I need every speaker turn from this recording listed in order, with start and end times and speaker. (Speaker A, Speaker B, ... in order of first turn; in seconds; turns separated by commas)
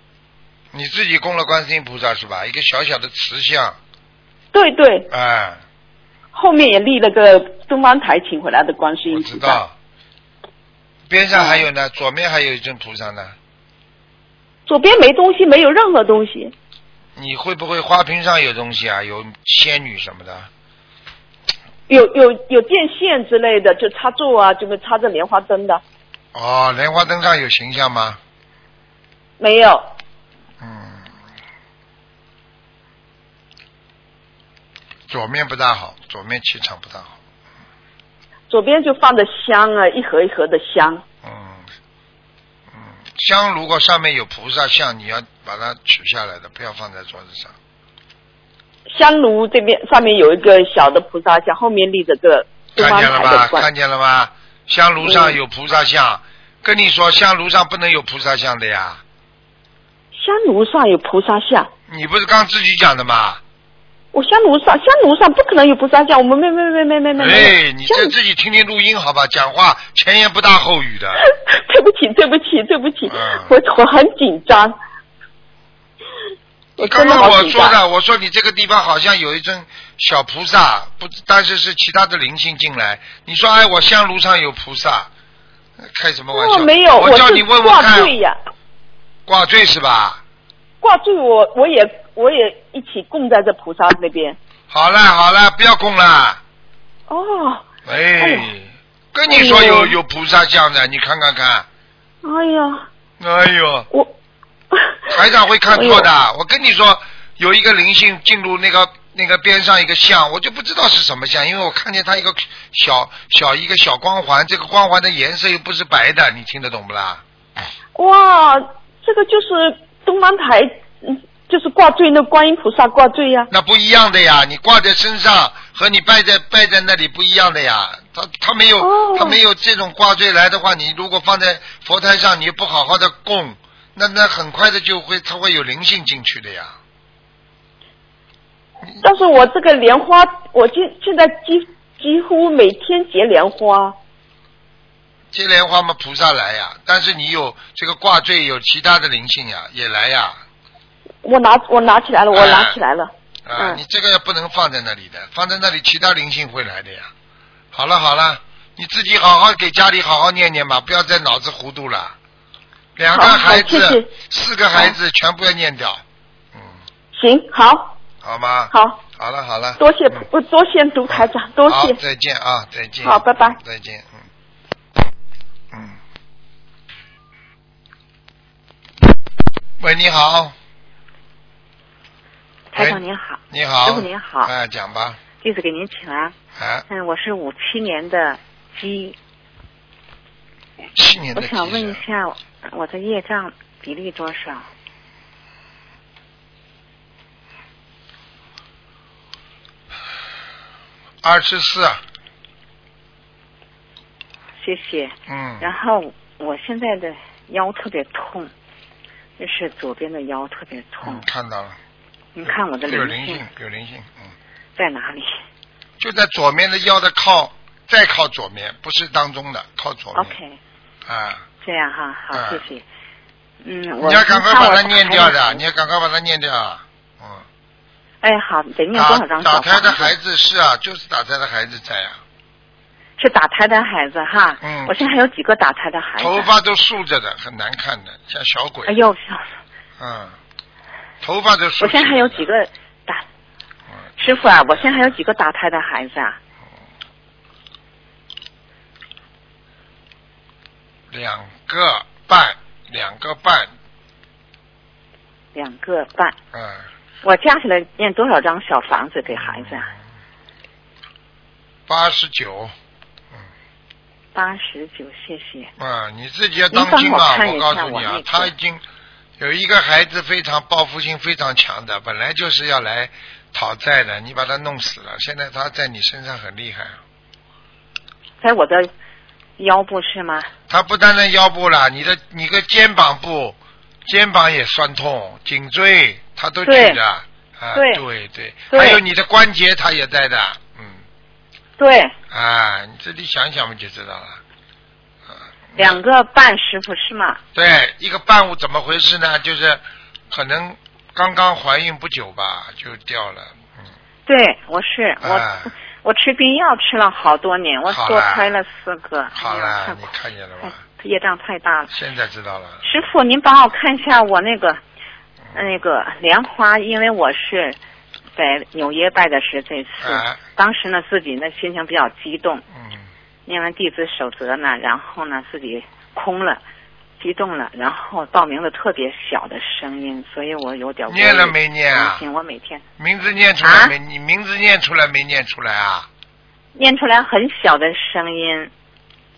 Speaker A: 0.7-3.8, Speaker B: 4.5-5.1, Speaker A: 5.1-5.6, Speaker B: 6.3-9.6, Speaker A: 9.1-9.7, Speaker A: 11.1-13.3, Speaker B: 11.3-11.7, Speaker B: 14.7-16.5, Speaker A: 17.2-20.5, Speaker B: 21.9-25.8, Speaker A: 26.3-28.2, Speaker B: 29.4-29.9, Speaker A: 30.6-31.1, Speaker A: 35.1-37.1, Speaker B: 38.5-41.0, Speaker A: 41.2-41.7, Speaker A: 42.7-47.6, Speaker B: 48.9-53.7, Speaker A: 52.8-59.0, Speaker B: 55.0-55.4, Speaker B: 60.1-61.7, Speaker A: 61.9-63.4, Speaker B: 64.1-68.1, Speaker A: 67.2-71.2, Speaker B: 71.2-74.7, Speaker A: 73.1-73.5, Speaker B: 76.8-77.8, Speaker A: 76.8-85.1, Speaker A: 85.8-88.2, Speaker B: 86.3-88.4, Speaker A: 89.3-90.2, Speaker B: 90.8-94.4, Speaker A: 94.7-96.4, Speaker B: 97.1-97.7, Speaker A: 97.8-101.7, Speaker B: 98.2-98.5, Speaker B: 99.3-100.0, Speaker B: 102.2-102.9, Speaker A: 103.2-103.9, Speaker B: 104.7-105.2, Speaker A: 105.1-117.2, Speaker B: 105.7-106.1, Speaker B: 118.0-123.5, Speaker A: 123.5-136.8, Speaker B: 128.8-129.4, Speaker B: 139.0-144.0, Speaker A: 145.3-150.3, Speaker B: 151.2-153.8, Speaker A: 152.3-152.8, Speaker A: 153.5-157.1, Speaker A: 157.7-162.2, Speaker A: 163.0-166.0, Speaker B: 163.1-164.1, Speaker A: 166.5-166.8, Speaker B: 167.1-167.9, Speaker A: 168.2-170.2, Speaker B: 168.7-169.0, Speaker B: 169.8-172.0, Speaker A: 171.1-174.2, Speaker B: 173.0-173.6, Speaker A: 175.7-176.0, Speaker A: 179.8-180.6, Speaker C: 182.7-184.5, Speaker A: 182.8-185.2, Speaker C: 185.4-186.3, Speaker A: 186.6-186.9, Speaker C: 186.9-189.2, Speaker A: 190.9-192.0, Speaker C: 191.3-194.7, Speaker A: 201.2-202.0, Speaker C: 204.6-208.5, Speaker A: 205.3-205.7, Speaker C: 209.4-211.2, Speaker A: 211.0-211.8, Speaker C: 212.3-213.4, Speaker A: 212.8-214.3, Speaker C: 214.8-215.4, Speaker A: 216.0-220.3, Speaker C: 220.1-220.6, Speaker A: 221.1-221.5, Speaker C: 221.6-222.8, Speaker A: 222.3-222.6, Speaker C: 223.6-225.6, Speaker A: 224.0-227.4, Speaker C: 228.2-230.2, Speaker A: 228.9-232.2, Speaker C: 233.2-236.5, Speaker A: 234.6-235.0, Speaker A: 236.2-238.9, Speaker C: 238.9-239.5, Speaker A: 240.0-240.4, Speaker A: 241.2-242.5, Speaker C: 241.8-243.2, Speaker A: 244.2-245.1, Speaker C: 244.2-246.4, Speaker A: 251.1-253.7, Speaker C: 255.5-256.4, Speaker A: 256.5-256.9, Speaker C: 257.2-259.9, Speaker A: 259.3-259.9, Speaker A: 261.9-262.7, Speaker C: 264.4-265.7, Speaker A: 265.8-268.8, Speaker C: 266.7-268.5, Speaker A: 269.4-277.0, Speaker C: 278.4-278.9, Speaker C: 279.6-280.5, Speaker A: 280.7-291.0, Speaker C: 286.6-287.0, Speaker C: 287.7-288.0, Speaker C: 288.7-289.0, Speaker C: 291.8-292.1, Speaker A: 292.3-294.4, Speaker A: 295.7-296.0, Speaker C: 295.8-297.4, Speaker A: 297.6-303.5, Speaker C: 304.3-310.1, Speaker A: 305.2-305.7, Speaker A: 307.9-308.5, Speaker A: 309.4-310.8, Speaker C: 310.6-311.9, Speaker A: 311.9-313.0, Speaker C: 312.8-314.8, Speaker C: 315.5-317.8, Speaker C: 318.4-322.6, Speaker A: 320.0-320.4, Speaker A: 322.8-323.1, Speaker C: 323.5-326.6, Speaker C: 327.2-332.8, Speaker A: 331.1-332.2, Speaker A: 333.0-336.1, Speaker C: 333.6-333.9, Speaker C: 336.8-338.7